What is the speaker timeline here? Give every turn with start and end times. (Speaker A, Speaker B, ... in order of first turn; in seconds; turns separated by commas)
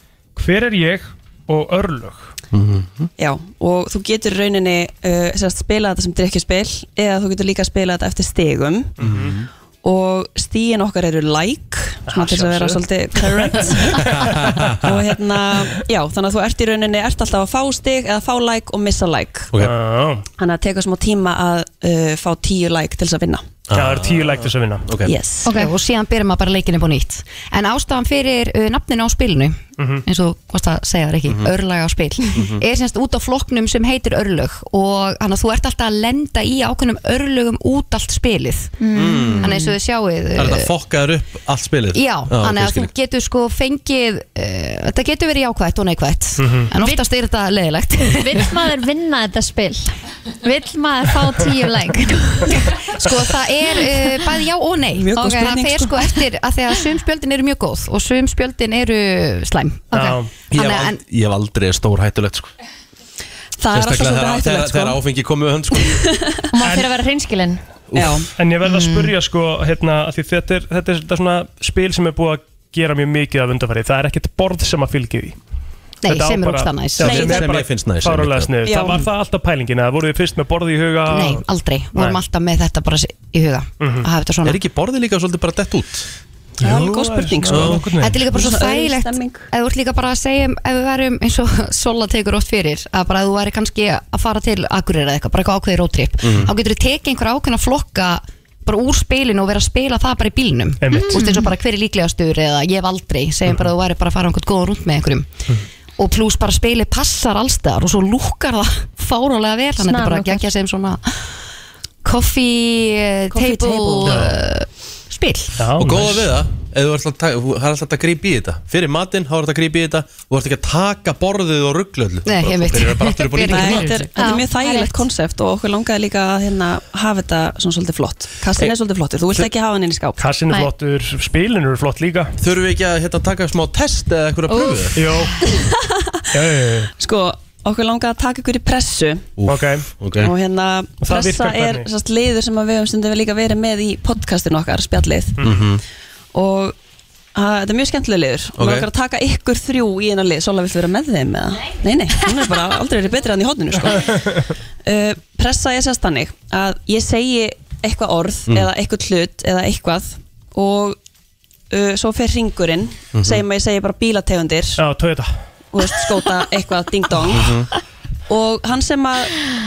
Speaker A: 0.3-2.3, Speaker B: 2.5-3.1, Speaker C: 3.2-8.9, Speaker A: 9.0-9.3, Speaker B: 9.0-9.5, Speaker C: 9.8-14.1, Speaker A: 12.1-14.8, Speaker B: 14.0-14.9, Speaker C: 14.8-19.5, Speaker A: 15.5-15.8, Speaker A: 19.6-20.2, Speaker C: 20.4-23.5, Speaker B: 23.7-25.1, Speaker A: 23.7-24.9, Speaker C: 25.0-25.5, Speaker D: 25.5-38.8, Speaker A: 29.8-30.0, Speaker B: 31.3-31.5, Speaker B: 32.3-32.6, Speaker E: 38.8-39.7, Speaker B: 38.9-39.5, Speaker D: 39.4-40.7, Speaker B: 40.3-42.9, Speaker D: 41.9-48.6, Speaker A: 46.4-46.7, Speaker E: 48.1-52.6, Speaker D: 52.7-61.0, Speaker C: 54.9-56.2, Speaker A: 59.9-60.3, Speaker B: 60.5-62.5, Speaker C: 63.6-65.0, Speaker B: 63.7-66.1, Speaker C: 65.8-66.4, Speaker E: 66.5-67.6, Speaker B: 67.9-68.2, Speaker C: 68.0-68.3, Speaker A: 68.4-75.4, Speaker D: 76.0-77.4, Speaker A: 76.0-81.4, Speaker B: 77.0-78.5, Speaker C: 78.6-79.1, Speaker D: 81.1-84.6, Speaker A: 83.8-84.1, Speaker B: 84.4-86.1, Speaker A: 86.6-88.3, Speaker C: 86.6-87.7, Speaker B: 87.5-87.9, Speaker D: 88.0-105.3, Speaker C: 88.3-89.5, Speaker B: 96.2-96.5, Speaker A: 100.8-101.2, Speaker E: 100.9-101.4, Speaker D: 106.0-111.3, Speaker E: 109.8-110.5, Speaker D: 112.0-115.5, Speaker C: 113.3-114.2, Speaker A: 114.0-114.3, Speaker A: 115.6-116.2, Speaker B: 115.8-124.0, Speaker D: 122.2-124.3, Speaker C: 123.5-130.2, Speaker E: 124.2-125.0, Speaker A: 130.2-132.3, Speaker B: 132.4-135.1, Speaker E: 134.5-134.9, Speaker A: 134.9-135.4, Speaker C: 135.4-135.9, Speaker A: 136.3-136.9, Speaker C: 137.0-139.3, Speaker B: 139.4-140.3, Speaker A: 139.5-139.9, Speaker C: 140.2-145.4, Speaker A: 141.0-141.9, Speaker B: 145.4-145.8, Speaker C: 146.3-146.8, Speaker C: 147.3-161.0, Speaker B: 148.6-148.9, Speaker A: 153.9-154.5, Speaker C: 161.7-164.8, Speaker B: 163.1-163.4, Speaker A: 164.8-165.4, Speaker C: 165.7-167.6, Speaker B: 167.3-167.7, Speaker C: 168.3-169.3